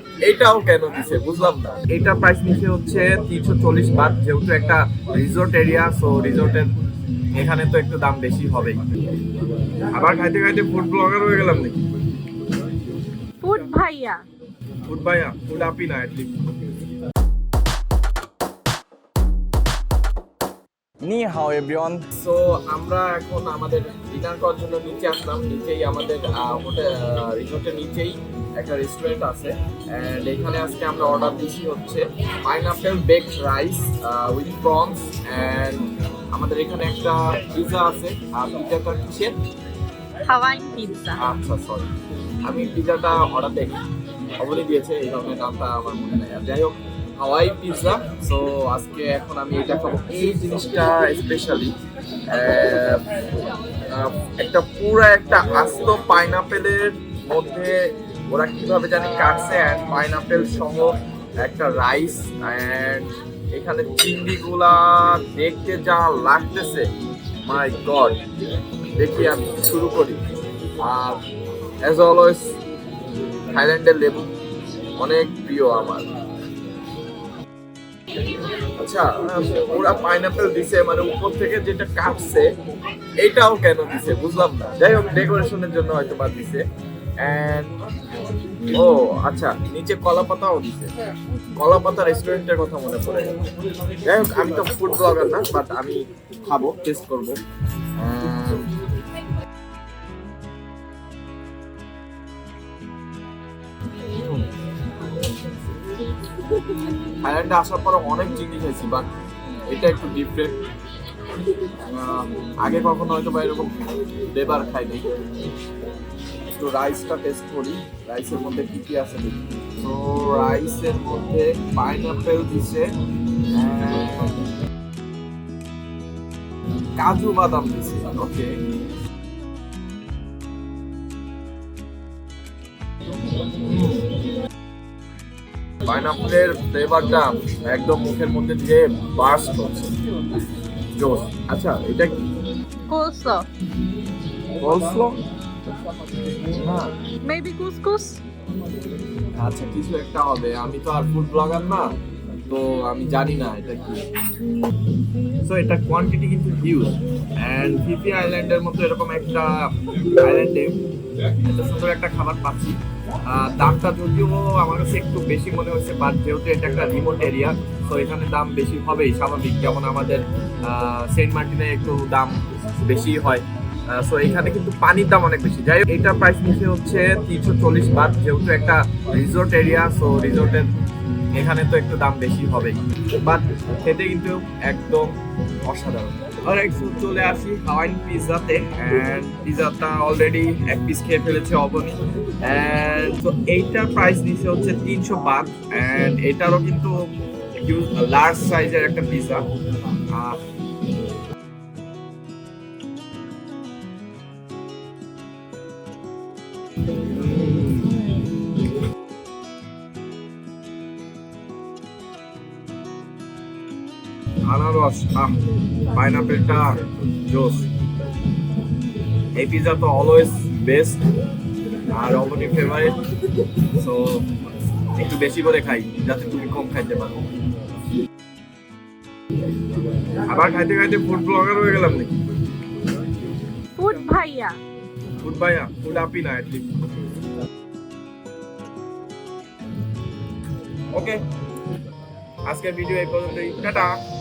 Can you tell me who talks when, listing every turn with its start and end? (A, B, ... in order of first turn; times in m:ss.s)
0:00.2-0:06.7 A
0:07.3-0:08.9 A
0:09.9-0:11.8 A
0:13.4-0:14.2 B
0:14.9-0:16.4 A
0:21.0-0:39.4 A
0:40.3-0:41.2 B
0:41.2-0:41.9 A
0:42.4-0:43.8 A
0:44.4-0:51.8 A
0:52.3-0:53.1 A
0:53.9-1:06.9 A
1:07.4-1:08.2 A
1:09.0-1:10.2 A
1:10.8-1:11.2 A
1:11.8-1:12.6 A
1:13.5-1:14.3 A
1:15.0-1:16.1 A
1:18.7-1:22.5 A
1:23.2-1:26.6 A
1:27.2-1:27.7 A
1:28.7-1:30.9 A
1:31.6-1:33.3 A
1:34.0-1:37.4 A
1:38.0-1:38.8 A
1:44.1-1:44.5 A
1:47.2-1:49.1 A
1:49.7-1:50.6 A
1:51.8-1:55.1 A
1:56.5-2:02.9 A
2:03.5-2:04.4 A
2:07.0-2:08.6 A
2:13.6-2:14.2 A
2:15.9-2:20.0 A
2:20.9-2:22.2 A
2:22.9-2:23.5 B
2:24.6-2:25.2 A
2:26.5-2:26.9 A
2:27.2-2:28.2 B
2:29.4-2:31.9 A
2:32.5-2:34.0 A
2:35.4-2:40.8 A
2:41.4-3:00.7 A
3:01.3-3:17.1 A
3:17.6-3:19.4 A
3:20.1-3:20.4 A
3:27.0-3:28.1 A
3:34.5-3:35.4 A
3:35.9-3:37.7 A
3:39.3-3:41.0 A
3:41.9-3:43.0 A
3:43.6-3:44.3 A
3:44.9-3:47.3 A
3:50.3-3:52.2 A
3:53.8-3:54.6 B
3:55.2-3:56.7 A
4:00.9-4:01.2 A
4:02.5-4:04.0 A